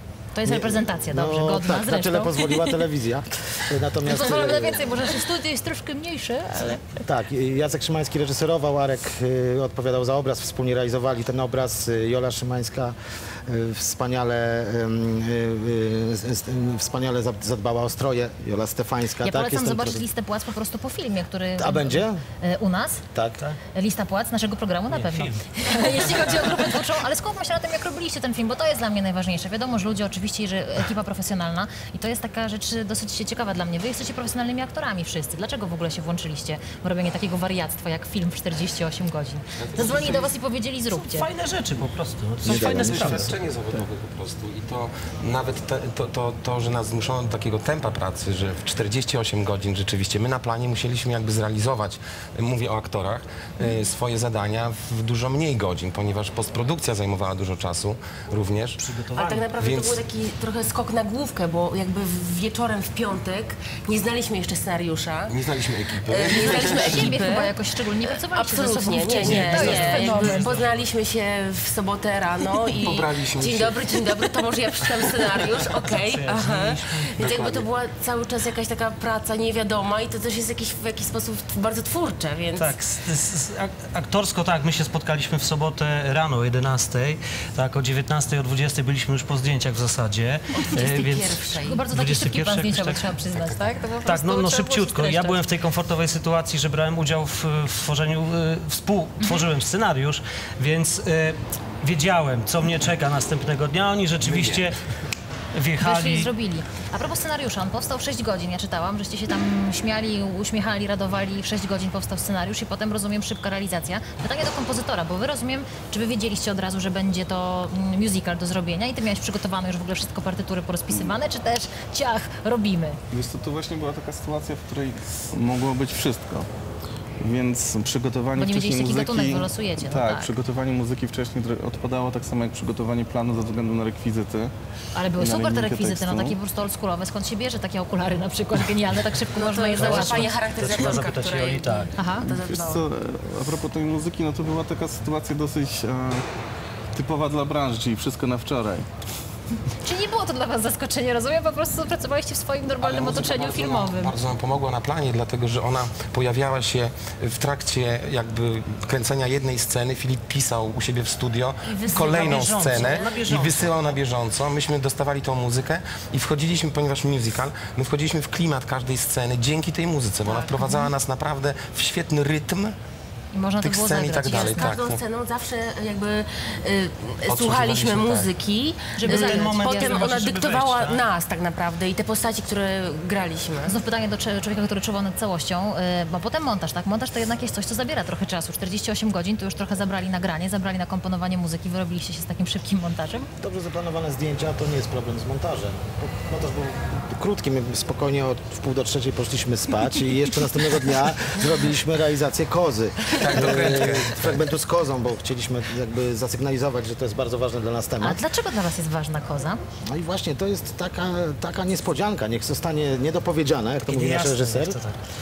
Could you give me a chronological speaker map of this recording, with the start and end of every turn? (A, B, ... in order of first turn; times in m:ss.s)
0:00.3-0:02.7 A
0:00.4-0:04.8 B
0:04.0-0:07.0 A
0:07.0-0:20.1 B
0:19.2-0:23.0 A
0:21.6-0:22.2 B
0:23.1-0:23.4 B
0:23.7-0:41.3 A
0:24.9-0:25.4 C
0:39.6-0:40.3 D
0:40.9-0:43.4 C
0:42.4-0:43.2 B
0:42.6-0:58.8 D
0:58.8-0:59.4 C
0:59.1-1:05.4 E
0:59.6-1:00.0 D
1:05.3-1:07.2 D
1:06.0-1:22.8 E
1:06.6-1:10.6 A
1:09.2-1:10.7 C
1:09.3-1:09.8 D
1:12.7-1:13.8 D
1:15.7-1:17.0 C
1:17.2-1:17.7 D
1:22.5-1:33.2 C
1:30.6-1:31.9 E
1:31.5-1:35.4 A
1:33.3-1:33.7 D
1:34.0-1:44.8 C
1:39.2-1:39.5 A
1:44.2-1:44.7 D
1:45.5-1:46.3 C
1:45.8-2:03.0 A
2:03.1-2:06.5 F
2:07.2-2:14.5 F
2:08.3-2:10.3 A
2:14.9-2:20.3 A
2:15.1-2:16.4 F
2:19.4-2:22.8 E
2:19.8-2:21.9 C
2:22.0-2:22.3 A
2:22.2-2:26.2 F
2:26.9-2:28.9 F
2:29.8-2:34.2 A
2:32.8-2:52.8 D
2:41.6-2:43.2 E
2:42.1-2:44.0 C
2:50.2-2:50.6 E
2:53.3-2:54.7 A
2:53.6-2:55.0 D
2:54.3-3:03.7 E
2:57.2-2:58.3 D
2:59.0-3:00.3 A
2:59.0-3:01.0 C
3:03.6-3:13.3 A
3:13.4-3:28.2 B
3:23.1-3:24.4 D
3:28.0-3:29.6 A
3:29.9-3:34.8 B
3:33.9-3:34.9 C